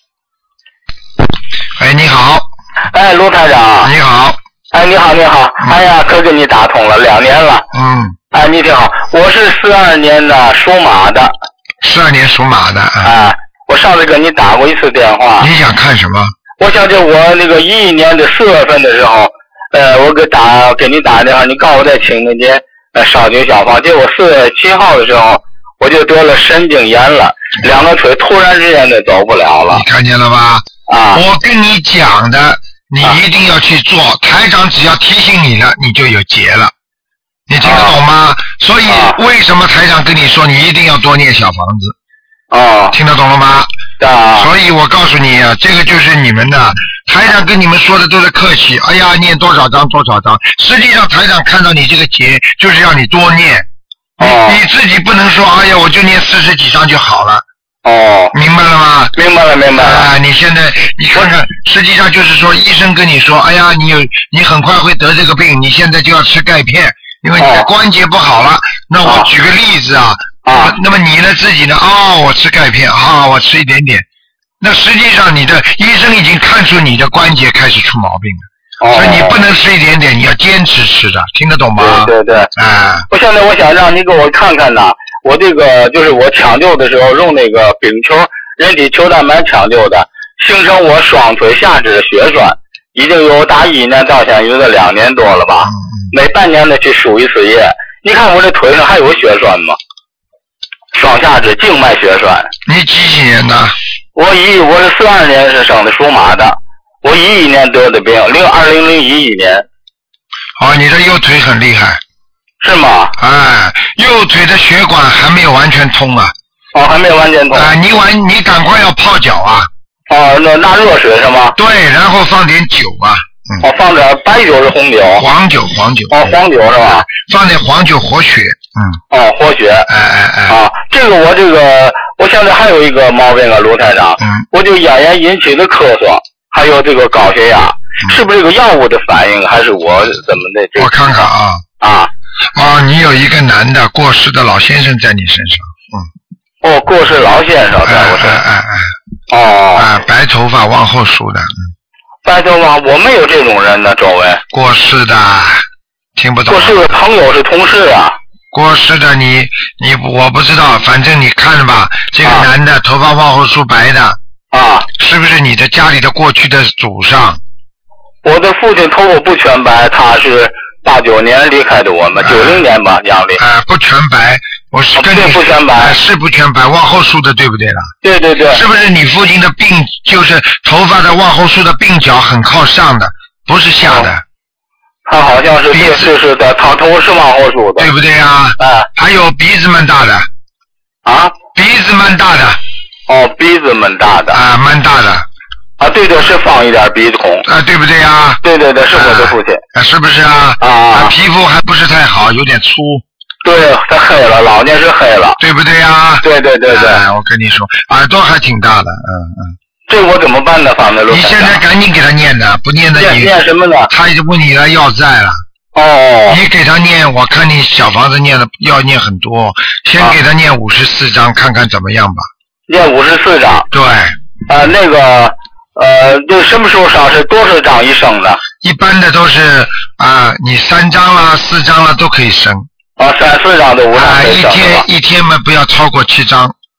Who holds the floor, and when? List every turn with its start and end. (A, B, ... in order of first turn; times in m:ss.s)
0:01.8-0:02.5 A
0:02.9-0:03.9 B
0:03.8-0:04.4 A
0:04.7-0:07.6 B
0:07.7-0:08.2 A
0:08.3-0:11.3 B
0:11.8-0:13.1 A
0:13.0-0:15.5 B
0:15.4-0:16.3 A
0:16.6-0:29.8 B
0:29.7-0:36.7 A
0:30.9-0:31.2 B
0:37.5-0:42.0 A
0:37.6-0:38.0 B
0:38.9-0:39.2 B
0:42.5-0:43.0 B
0:42.9-0:43.7 A
0:44.0-0:44.5 B
0:44.4-0:53.7 A
0:54.2-0:54.6 B
0:54.2-0:57.4 A
0:57.8-0:58.3 B
0:58.3-0:59.1 A
0:59.2-1:00.1 B
0:59.8-1:14.1 A
1:07.4-1:07.7 B
1:09.0-1:09.3 B
1:10.4-1:10.8 B
1:14.6-1:23.1 A
1:18.8-1:19.4 B
1:21.8-1:22.5 B
1:23.1-1:39.8 B
1:40.9-1:42.5 B
1:42.7-1:43.8 A
1:44.2-1:49.6 B
1:50.6-1:52.0 A
1:52.6-1:53.1 B
1:53.2-1:56.3 A
1:56.8-1:57.7 B
1:57.5-1:59.7 A
2:00.1-2:01.5 B
2:01.6-2:03.7 A
2:03.6-2:05.2 B
2:05.2-2:06.3 A
2:06.1-2:07.1 B
2:07.0-2:09.0 A
2:09.1-2:09.9 B
2:09.9-2:10.6 A
2:10.5-2:20.9 B
2:14.2-2:14.4 A
2:20.8-2:21.6 A
2:21.8-2:22.1 B
2:22.5-2:26.1 A
2:26.6-2:28.4 B
2:27.8-2:28.9 A
2:29.3-2:29.9 B
2:29.8-2:31.7 A
2:32.2-2:34.4 B
2:34.5-2:35.6 A
2:36.2-2:36.9 A
2:36.5-2:38.2 B
2:38.5-2:44.2 A
2:42.2-2:42.5 B
2:44.5-2:44.9 B
2:45.0-2:47.4 A
2:48.2-2:53.4 B
2:52.2-2:52.6 A
2:53.4-2:57.9 A
2:55.0-2:55.9 B
2:58.0-2:58.6 B
2:58.5-3:04.2 A
3:05.1-3:07.9 B
3:05.7-3:06.1 A
3:07.8-3:10.3 A
3:08.6-3:08.9 B
3:11.0-3:11.4 B
3:11.5-3:12.6 A
3:13.1-3:14.4 B
3:14.3-3:15.3 A
3:15.8-3:17.4 B
3:17.5-3:18.4 A
3:18.4-3:19.6 B
3:18.9-3:23.0 A
3:20.6-3:21.1 B
3:23.4-3:25.4 B
3:25.4-3:29.6 A
3:26.2-3:27.0 B
3:29.9-3:31.6 B
3:31.1-3:33.3 A
3:33.0-3:33.9 B
3:33.9-3:35.4 A
3:35.8-3:36.4 B
3:36.3-3:42.3 A
3:42.7-3:43.7 B
3:43.7-3:44.2 A
3:44.5-3:48.4 B
3:48.6-3:52.7 A
3:53.0-3:54.8 B
3:54.0-3:56.5 A